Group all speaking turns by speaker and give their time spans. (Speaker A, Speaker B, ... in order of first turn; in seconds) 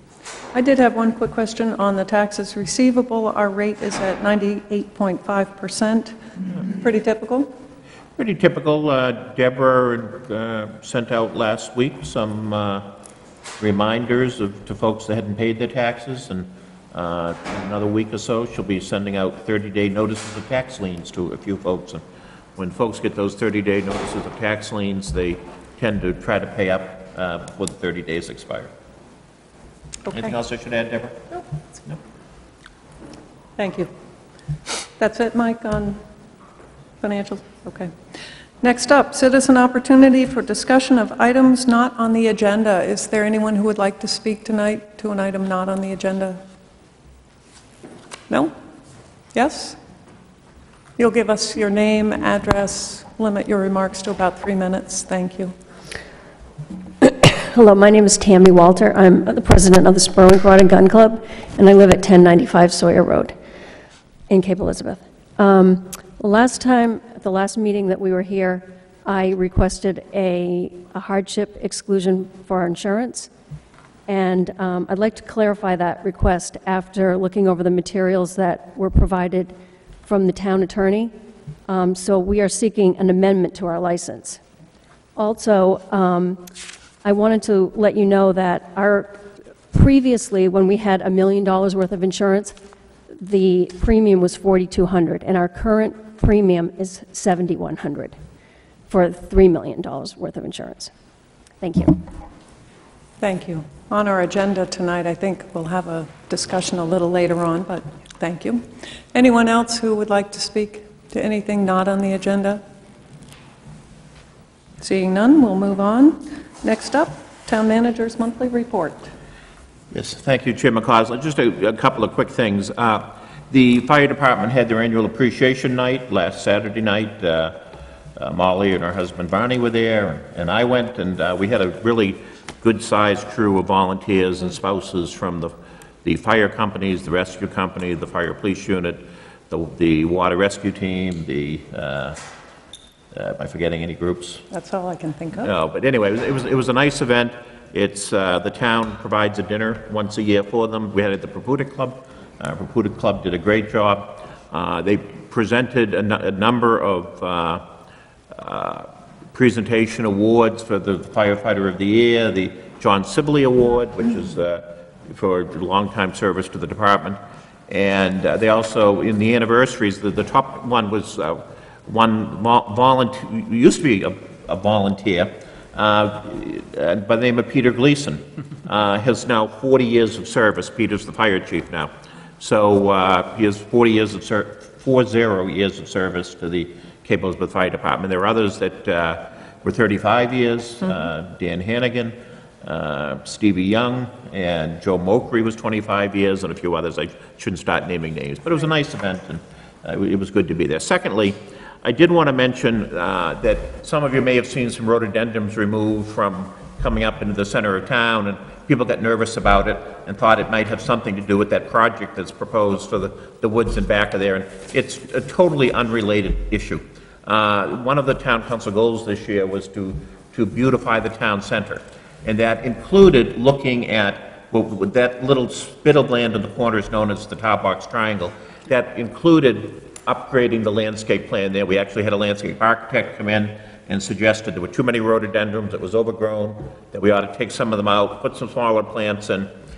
Speaker A: 0.5-7.5, 30.1-30.3, 33.6-33.9, 35.0-36.0, 37.0-37.9, 38.6-46.4, 49.3-49.8, 51.0-55.5, 103.2-112.6, 114.8-119.1, 144.5-145.5
Speaker B: 8.2-12.9, 13.6-22.0, 22.6-28.7, 30.1-31.3, 119.9-127.6, 128.2-142.2, 143.1-144.4, 145.4-157.6, 158.3-239.5
Speaker C: 57.0-63.4, 64.3-73.3, 74.1-81.1, 81.7-84.4, 85.1-86.5, 87.0-92.6, 93.1-98.2, 98.9-100.9, 101.6-102.0